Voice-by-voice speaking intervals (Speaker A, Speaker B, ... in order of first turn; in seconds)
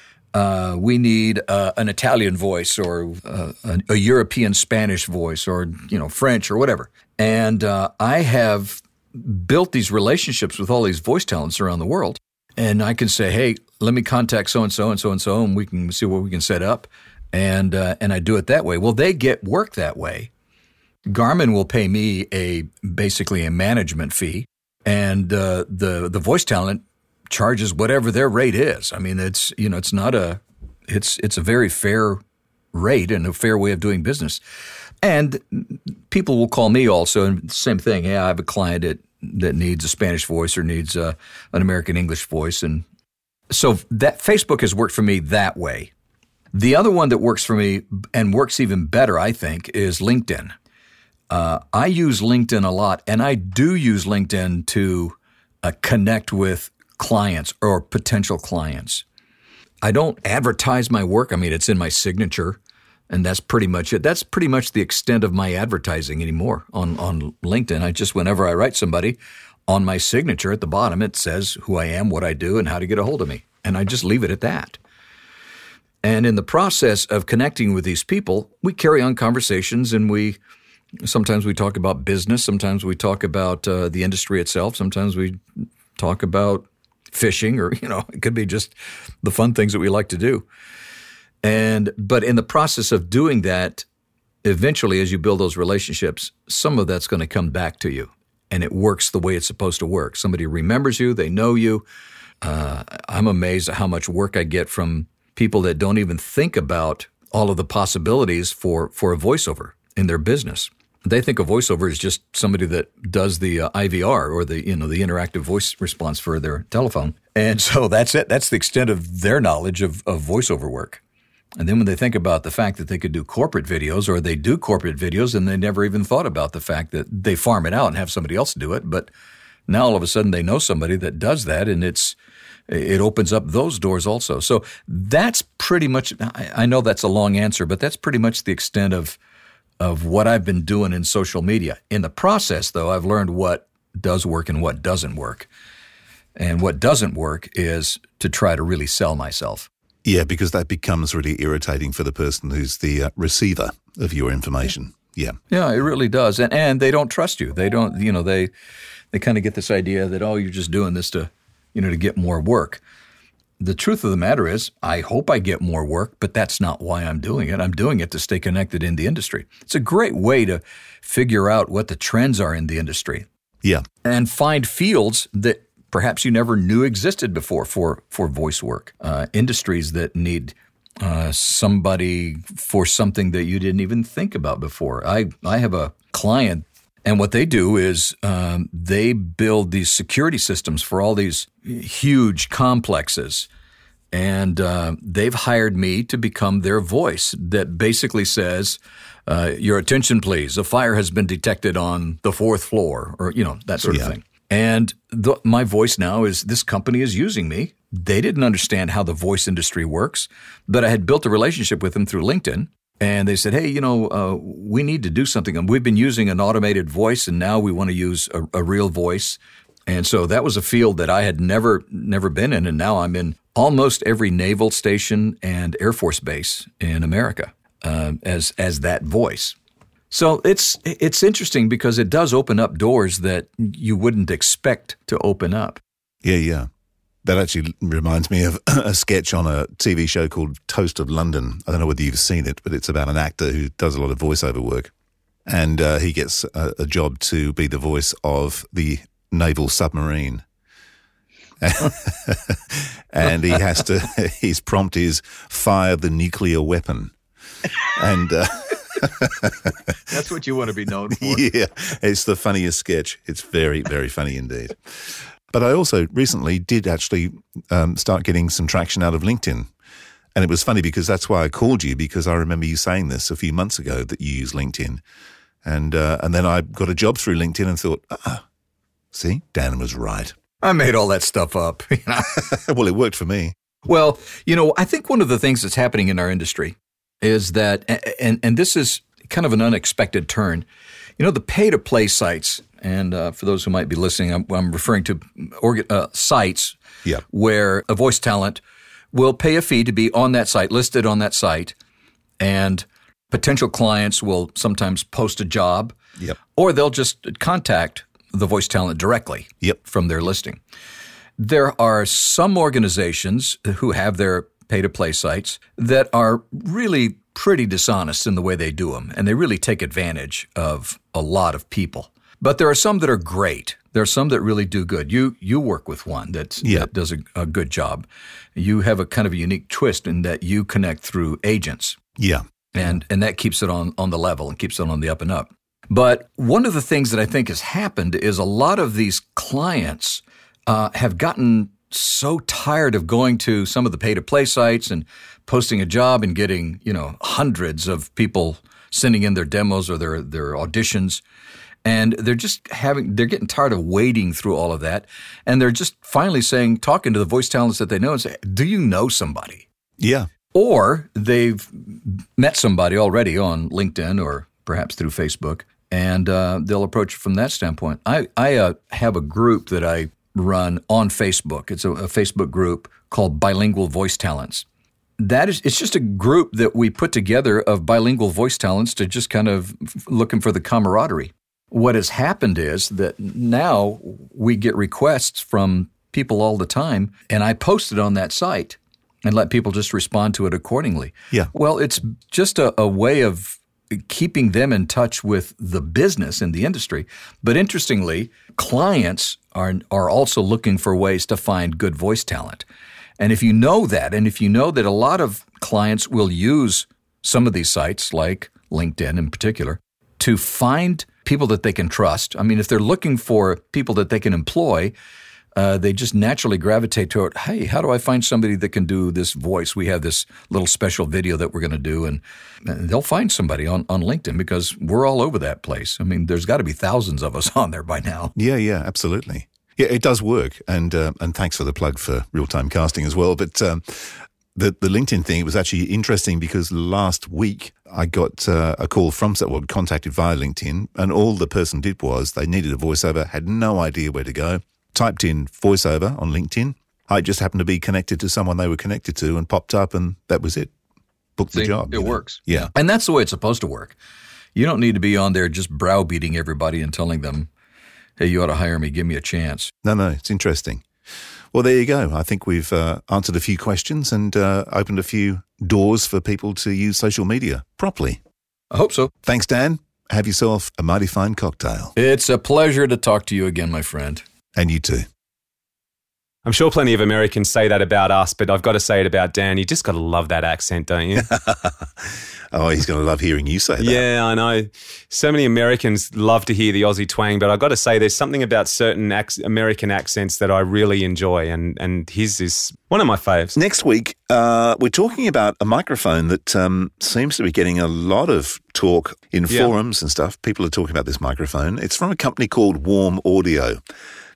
Speaker A: 0.3-20.3, 21.1-32.2, 32.7-34.4, 35.0-42.8, 43.5-45.9, 46.5-50.5, 51.3-59.0, 59.8-74.8, 76.0-80.4, 81.0-85.4, 86.0-90.5, 91.4-93.8, 94.4-101.8, 102.4-121.0, 121.6-129.1, 129.7-132.2, 132.7-139.2, 139.8-145.5, 146.3-149.7, 155.5-158.5, 159.1-162.8, 163.6-173.2, 174.0-193.5, 194.1-229.6, 230.1-235.8, 260.1-261.5, 280.6-282.4, 283.9-290.7, 291.2-298.6, 299.1-301.7, 302.4-305.9, 306.5-310.6, 311.4-332.0, 332.7-351.2, 351.8-359.6, 360.5-374.6, 375.2-402.6, 403.2-414.9, 415.5-428.3, 451.5-453.9, 454.5-457.5, 458.2-459.7, 468.7-469.1, 471.9-474.2
Speaker B: 150.0-155.3, 203.8-204.1, 236.2-236.7, 237.2-244.9, 245.5-250.4, 251.6-257.1, 257.9-259.7, 261.1-264.8, 265.5-269.7, 270.3-275.0, 275.6-278.4, 279.1-280.3, 282.3-283.5, 326.6-326.9, 360.0-360.3, 428.4-450.7, 451.4-452.7, 459.8-460.8, 461.5-468.2, 469.2-471.9, 474.6-475.1, 481.3-484.0, 493.5-503.8
Speaker C: 476.4-481.3, 483.8-493.6